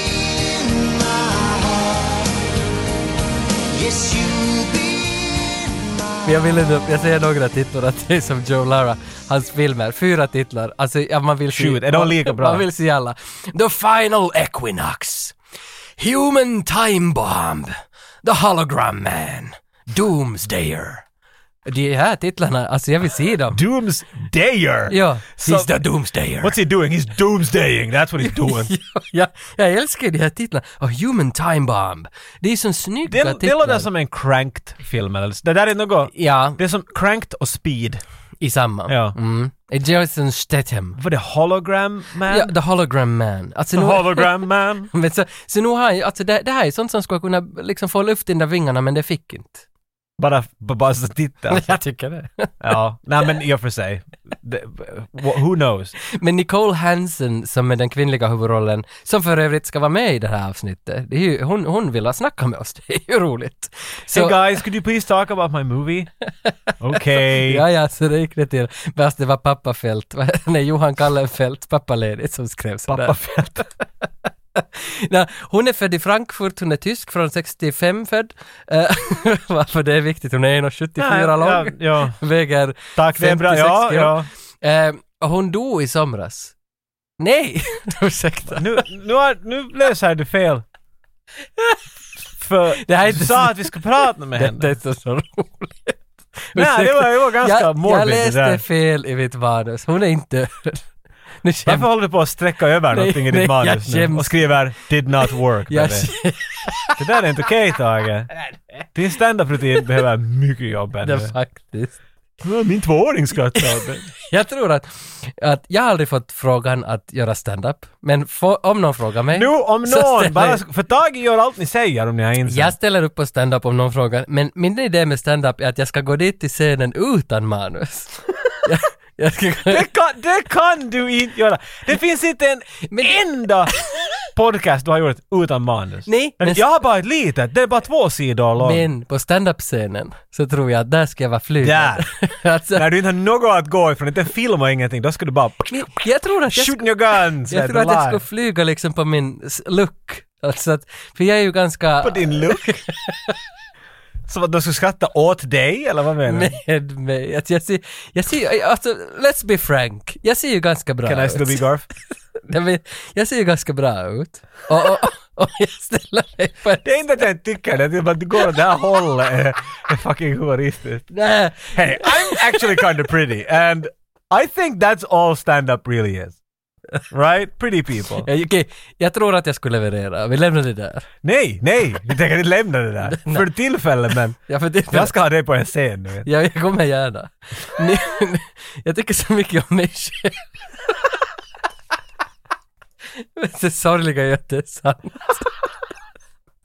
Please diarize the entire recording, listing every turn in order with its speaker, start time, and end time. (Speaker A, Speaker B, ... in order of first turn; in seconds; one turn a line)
Speaker A: 6.2-15.4
Speaker B: 11.5-12.7
Speaker A: 16.0-21.1
Speaker A: 21.7-23.6
Speaker B: 23.5-25.8
Speaker A: 24.9-26.6
Speaker B: 26.4-28.7
Speaker A: 28.2-33.9
Speaker B: 33.1-38.0
Speaker A: 36.1-36.6
Speaker A: 38.4-41.0
Speaker B: 38.9-39.2
Speaker B: 41.0-42.5
Speaker A: 42.3-49.6
Speaker B: 43.7-44.9
Speaker B: 50.2-51.8
Speaker A: 51.5-52.6
Speaker B: 52.6-56.0
Speaker A: 56.1-64.4
Speaker B: 64.1-66.1
Speaker B: 66.8-67.6
Speaker A: 67.1-73.2
Speaker B: 72.9-73.7
Speaker A: 74.6-86.5
Speaker B: 81.0-82.2
Speaker B: 83.0-84.3
Speaker A: 87.2-88.8
Speaker B: 88.5-90.6
Speaker B: 92.4-94.7
Speaker A: 92.8-93.8
Speaker A: 94.4-100.9
Speaker B: 96.5-98.6
Speaker A: 101.4-101.9
Speaker B: 101.7-106.1
Speaker A: 102.9-104.6
Speaker A: 105.3-107.0
Speaker B: 107.0-108.3
Speaker B: 108.9-111.3
Speaker A: 111.0-112.0
Speaker B: 112.4-114.1
Speaker A: 113.6-120.6
Speaker B: 119.3-122.8
Speaker A: 122.5-129.8
Speaker B: 129.7-133.7
Speaker A: 132.9-133.2
Speaker B: 134.2-138.9
Speaker A: 136.1-136.6
Speaker A: 138.6-142.9
Speaker B: 141.6-142.1
Speaker B: 142.7-145.9
Speaker A: 145.7-153.4
Speaker B: 146.5-148.2
Speaker B: 152.0-152.7
Speaker B: 154.3-156.5
Speaker A: 156.3-161.6
Speaker B: 161.1-161.9
Speaker A: 162.4-166.9
Speaker B: 166.8-171.1
Speaker A: 171.1-172.9
Speaker B: 171.7-176.4
Speaker B: 177.1-178.3
Speaker A: 178.2-181.1
Speaker B: 181.2-184.4
Speaker A: 183.1-183.5
Speaker A: 184.4-185.2
Speaker B: 184.9-186.3
Speaker A: 186.3-190.5
Speaker A: 193.2-195.6